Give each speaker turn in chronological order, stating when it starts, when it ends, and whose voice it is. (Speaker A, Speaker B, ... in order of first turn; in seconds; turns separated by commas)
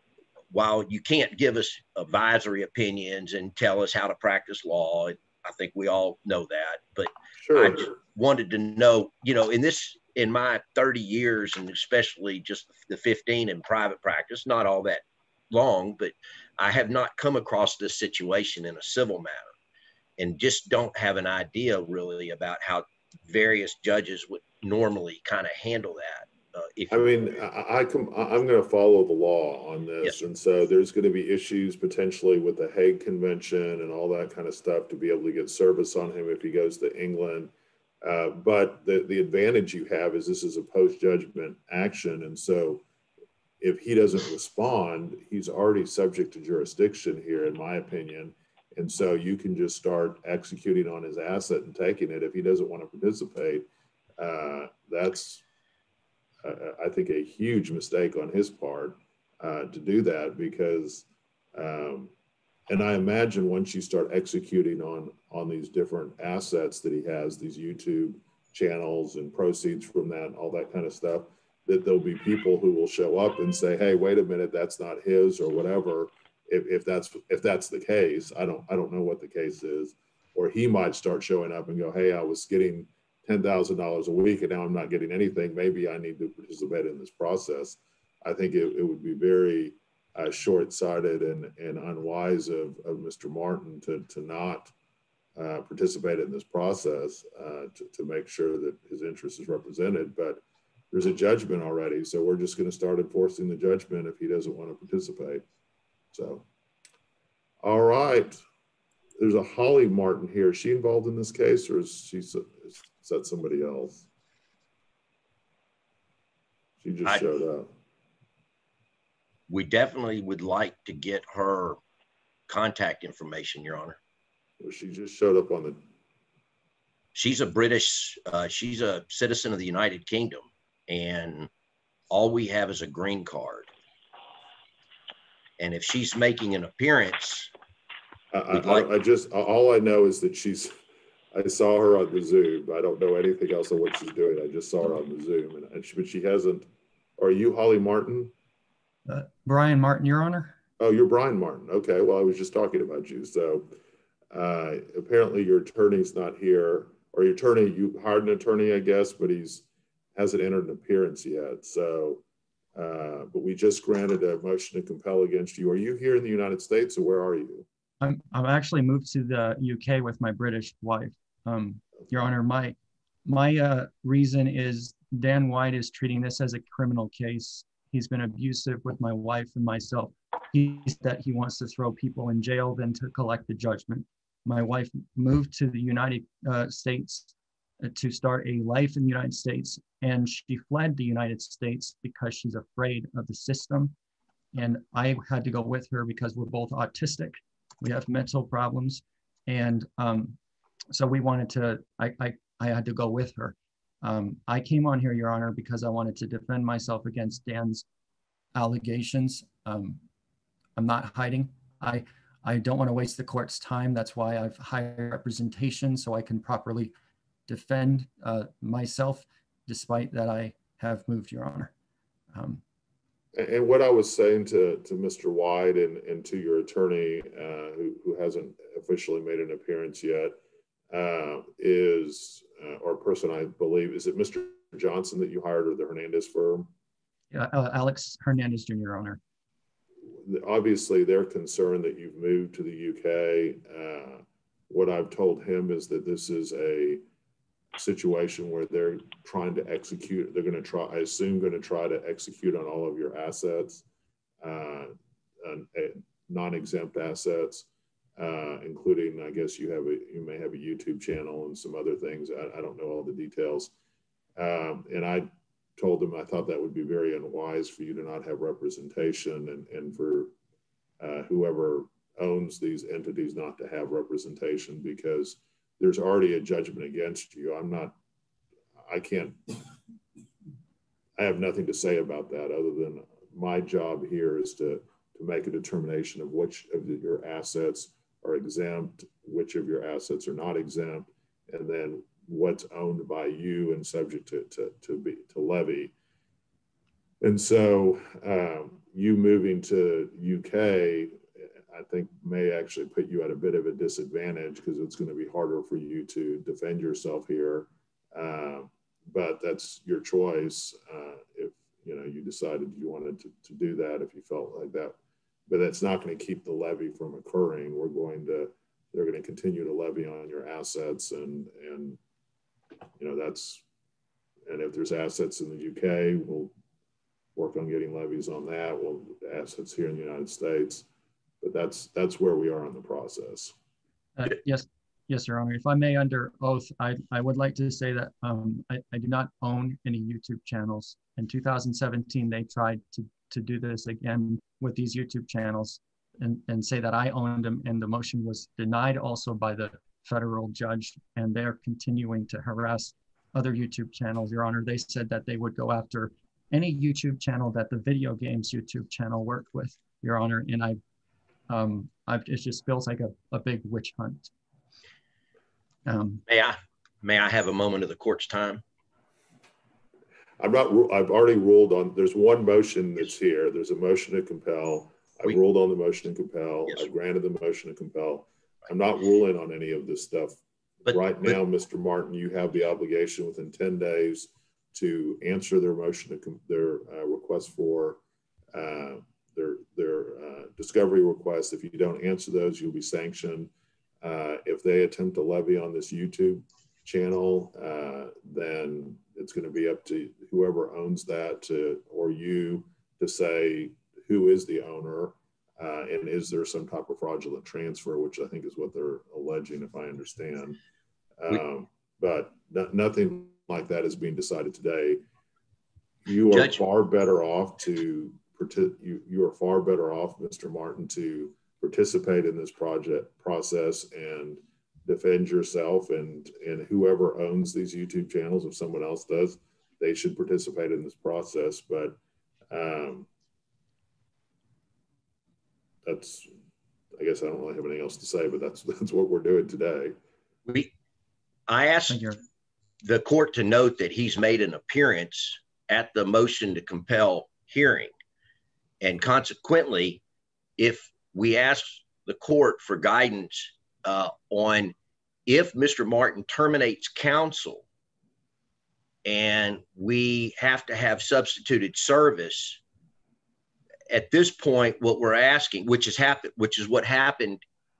Speaker A: 0.5-19.5, Speaker B: 7.4-7.9, Speaker A: 20.2-27.1, Speaker B: 26.9-37.5, Speaker B: 38.0-42.8, Speaker B: 43.6-53.7, Speaker B: 54.2-55.4, Speaker B: 56.4-62.1, Speaker B: 62.7-94.7, Speaker B: 95.4-105.4, Speaker B: 106.1-106.5, Speaker B: 107.6-108.4, Speaker B: 109.2-114.1, Speaker B: 116.8-117.7, Speaker A: 119.5-121.8, Speaker A: 122.5-124.0, Speaker B: 124.6-125.8, Speaker A: 127.2-131.5, Speaker A: 132.1-133.7, Speaker A: 135.6-137.5, Speaker B: 138.3-140.7, Speaker A: 138.5-138.9, Speaker B: 141.3-146.7, Speaker B: 147.2-148.3, Speaker C: 149.1-150.6, Speaker B: 150.8-153.7, Speaker B: 154.3-162.2, Speaker B: 162.8-167.7, Speaker C: 168.0-193.9, Speaker C: 194.5-200.4, Speaker C: 200.9-207.8, Speaker C: 208.5-210.0, Speaker C: 210.8-216.9, Speaker C: 217.5-221.7, Speaker C: 222.3-222.6, Speaker B: 223.4-230.4, Speaker B: 230.9-236.7, Speaker C: 237.3-239.2, Speaker B: 240.3-247.0, Speaker B: 247.8-253.8, Speaker B: 254.4-263.7, Speaker B: 264.4-270.3, Speaker B: 271.0-278.0, Speaker B: 278.9-279.6, Speaker B: 281.2-295.9, Speaker B: 297.2-301.2, Speaker B: 301.7-315.0, Speaker B: 315.5-322.0, Speaker B: 323.0-323.6, Speaker B: 324.5-326.6, Speaker B: 327.4-330.9, Speaker B: 331.4-333.5, Speaker C: 334.2-360.8, Speaker C: 361.5-364.3, Speaker C: 365.9-366.2, Speaker A: 366.3-368.6, Speaker B: 370.4-388.0, Speaker B: 388.5-393.5, Speaker B: 394.0-410.6, Speaker B: 411.2-415.0, Speaker B: 416.1-432.0, Speaker A: 416.3-416.6, Speaker B: 432.5-433.1, Speaker B: 435.9-436.3, Speaker B: 437.0-440.0, Speaker A: 440.5-440.7, Speaker A: 441.5-442.1, Speaker C: 441.9-442.2, Speaker A: 442.8-447.9, Speaker A: 448.8-450.0, Speaker A: 450.6-454.7, Speaker A: 455.3-457.6, Speaker A: 459.1-462.6, Speaker A: 463.9-467.4